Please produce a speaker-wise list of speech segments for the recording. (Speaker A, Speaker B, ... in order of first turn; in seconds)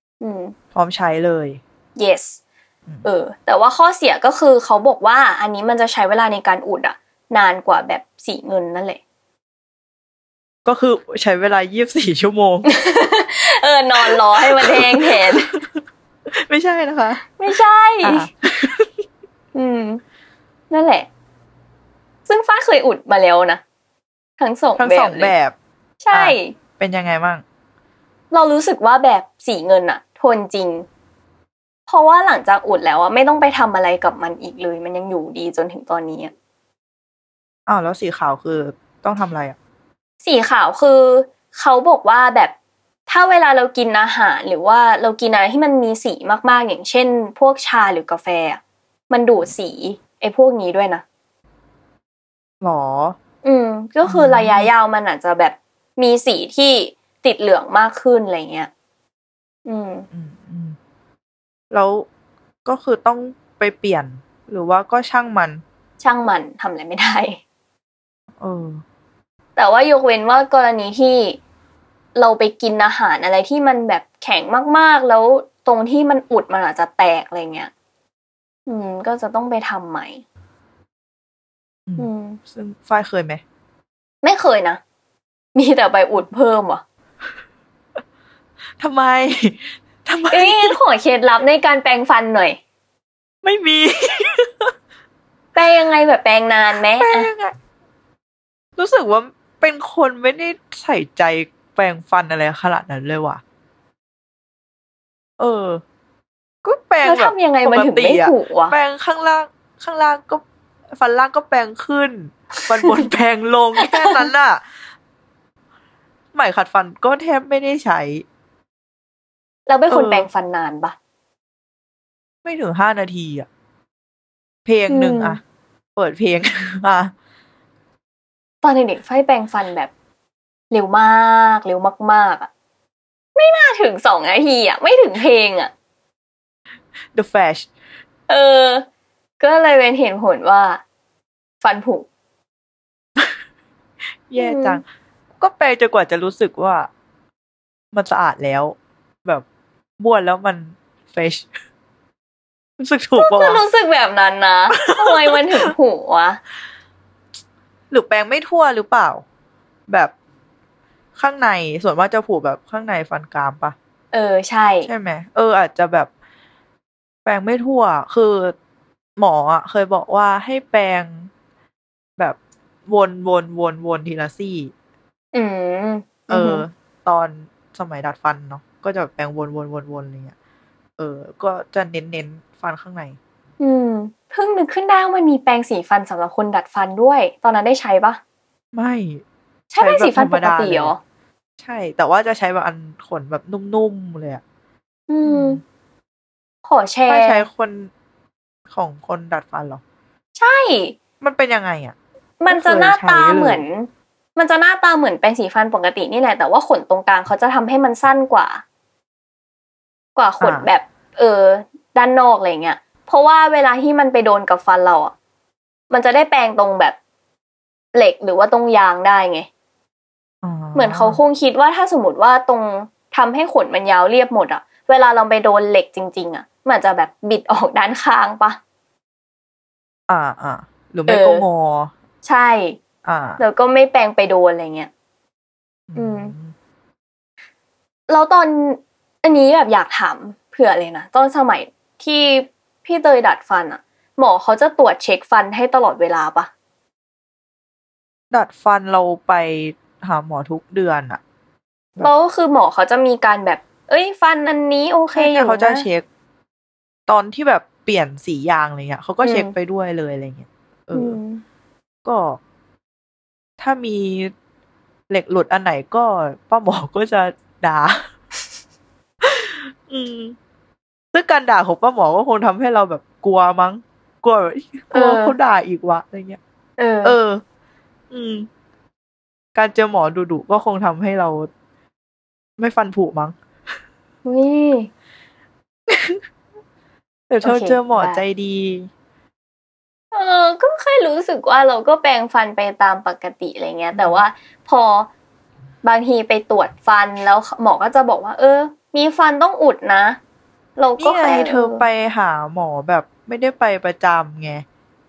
Speaker A: 0.2-0.5, 1.9-2.4, 3.0-9.0, 12.6-15.5, 17.4-18.3, 19.5-20.0, 20.7-21.1, 22.2-23.6, 24.4-25.3, 26.0-26.5, 28.3-30.9, 31.9-36.3, 40.2-42.5, 43.1-51.0, 53.4-58.7, 59.6-60.1, 66.0-67.4, 69.5-71.4, 72.2-77.7, 78.7-80.2, 82.0-82.4, 84.2-84.8, 85.5-86.8, 90.3-92.6, 95.5-97.3, 107.0-108.8, 112.6-113.1, 113.8-114.3, 119.7-121.0, 124.9-125.4, 128.6-129.9, 130.7-132.5, 133.3-135.7, 138.3-138.8, 139.4-140.8, 141.6-142.1, 144.4-144.8, 153.2-156.4, 164.1-164.9, 175.3-176.6, 183.6-188.2, 189.7-191.0, 195.1-195.6, 196.6-197.5, 200.3-200.9, 202.4-208.6, 210.2-215.1, 215.9-216.9, 217.9-219.5, 220.7-228.6, 231.1-231.4, 232.2-232.8, 233.4-234.9, 235.9-236.3, 238.1-246.5, 252.0-255.9, 259.2-259.5, 260.9-261.4, 274.9-275.4, 276.8-277.2, 284.2-284.9, 287.4-288.2, 290.1-295.1, 295.8-300.2, 300.8-301.8
Speaker B: 0.7-1.6, 10.6-12.7, 14.0-15.8, 16.4-17.2, 18.0-18.9, 24.8-25.5, 26.1-27.4, 37.7-39.5, 52.6-53.2, 54.0-54.7, 60.1-60.8, 61.7-62.1, 62.6-65.6, 68.4-68.8, 81.9-83.4, 88.8-90.8, 93.4-94.7, 97.0-97.5, 98.8-103.4, 105.4-105.8, 106.6-114.6, 116.3-118.2, 119.9-120.3, 122.4-123.5, 124.6-125.4, 126.0-127.1, 137.1-137.7, 144.3-144.8, 145.4-146.9, 147.9-149.4, 150.0-151.5, 152.8-153.6, 154.8-155.7, 157.9-159.2, 159.9-160.1, 161.2-163.7, 164.8-166.1, 167.2-168.5, 169.2-171.3, 172.2-174.7, 176.3-180.3, 181.0-183.2, 188.7-189.2, 189.8-190.9, 191.6-194.4, 195.2-195.6, 197.1-197.9, 198.7-199.8, 201.2-201.9, 202.5-203.6, 210.4-210.7, 220.4-221.2, 230.1-231.9, 233.0-233.4, 235.9-236.5, 248.3-251.2, 255.1-256.1, 257.1-261.2, 262.0-262.4, 263.6-264.3, 265.1-268.0, 269.2-270.4, 271.1-276.4, 277.0-277.4, 278.1-278.5, 279.5-281.5, 282.6-283.4, 285.9-286.2, 287.3-288.9, 293.9-294.2, 301.0-304.6